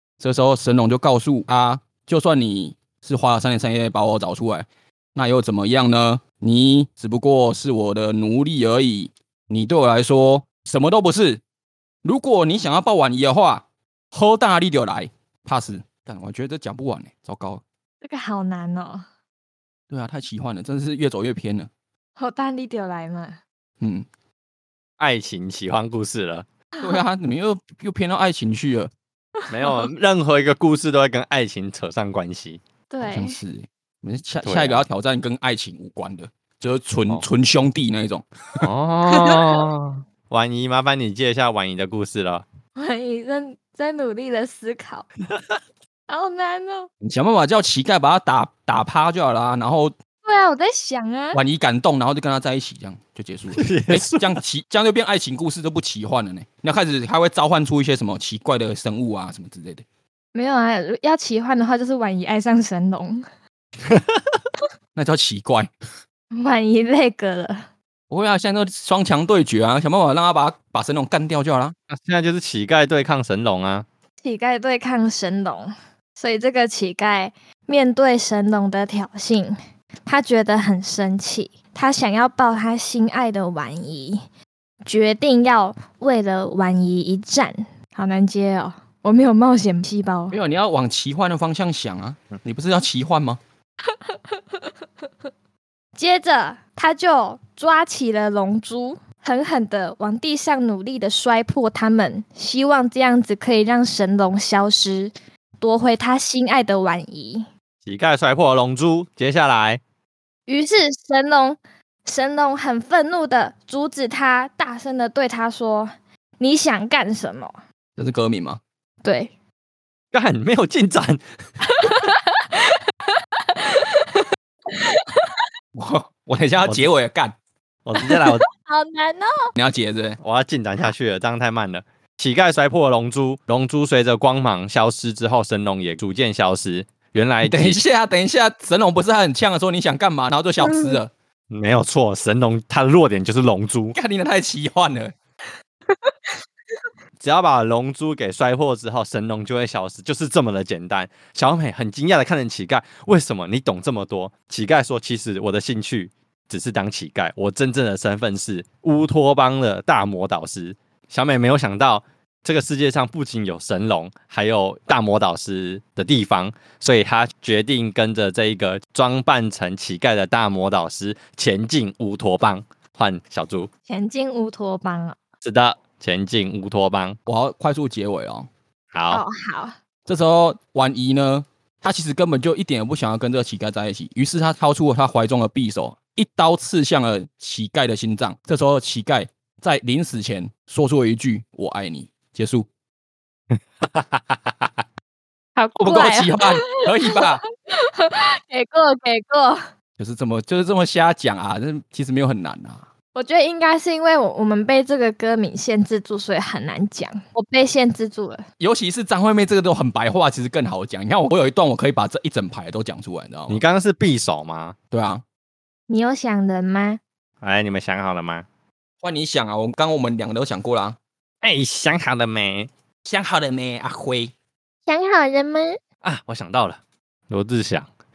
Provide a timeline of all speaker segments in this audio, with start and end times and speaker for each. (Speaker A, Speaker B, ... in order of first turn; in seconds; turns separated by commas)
Speaker A: 0.2-11.4, Speaker A: 12.0-17.6, Speaker B: 18.0-19.1, Speaker A: 19.9-21.7, Speaker B: 22.2-23.4, Speaker A: 23.8-24.1, Speaker C: 25.0-26.4, Speaker A: 26.8-28.9, Speaker B: 29.4-29.9, Speaker C: 29.5-32.6, Speaker B: 32.9-33.4, Speaker A: 33.0-38.6, Speaker C: 34.4-34.8, Speaker C: 38.6-42.4, Speaker B: 39.1-39.6, Speaker B: 42.8-45.1, Speaker B: 46.1-46.9, Speaker A: 47.0-49.9, Speaker B: 50.2-51.4, Speaker A: 51.3-59.8, Speaker C: 53.6-54.4, Speaker B: 60.3-63.2, Speaker C: 63.8-64.4, Speaker A: 64.9-65.7, Speaker B: 66.3-67.7, Speaker A: 68.1-71.7, Speaker C: 71.9-73.8, Speaker B: 74.2-84.2, Speaker B: 84.8-90.3, Speaker A: 90.3-93.4, Speaker B: 93.9-94.6, Speaker B: 96.0-107.5, Speaker C: 107.8-109.8, Speaker B: 110.5-117.6, Speaker A: 118.0-118.6, Speaker B: 119.0-119.3, Speaker C: 120.1-121.2, Speaker B: 121.6-125.5, Speaker A: 125.7-127.3, Speaker C: 127.8-128.4, Speaker B: 128.0-129.5, Speaker A: 129.6-130.2, Speaker C: 130.2-137.8, Speaker A: 137.4-141.1, Speaker B: 140.6-141.0, Speaker C: 141.5-143.9, Speaker A: 143.9-145.1, Speaker C: 147.2-173.7, Speaker B: 173.9-175.2, Speaker C: 175.4-177.2, Speaker A: 177.3-178.5, Speaker C: 178.9-179.2, Speaker B: 179.1-179.8, Speaker A: 180.1-192.7, Speaker C: 193.8-194.7, Speaker B: 195.6-199.6, Speaker A: 195.8-197.4, Speaker A: 200.0-202.8, Speaker B: 203.1-208.4, Speaker A: 208.6-213.6, Speaker C: 213.5-214.7, Speaker A: 214.9-215.2, Speaker B: 215.9-217.0, Speaker C: 217.4-218.4, Speaker A: 219.0-221.0, Speaker C: 221.4-222.7, Speaker A: 223.0-224.3, Speaker B: 224.8-225.8, Speaker C: 226.0-226.8, Speaker C: 227.3-227.9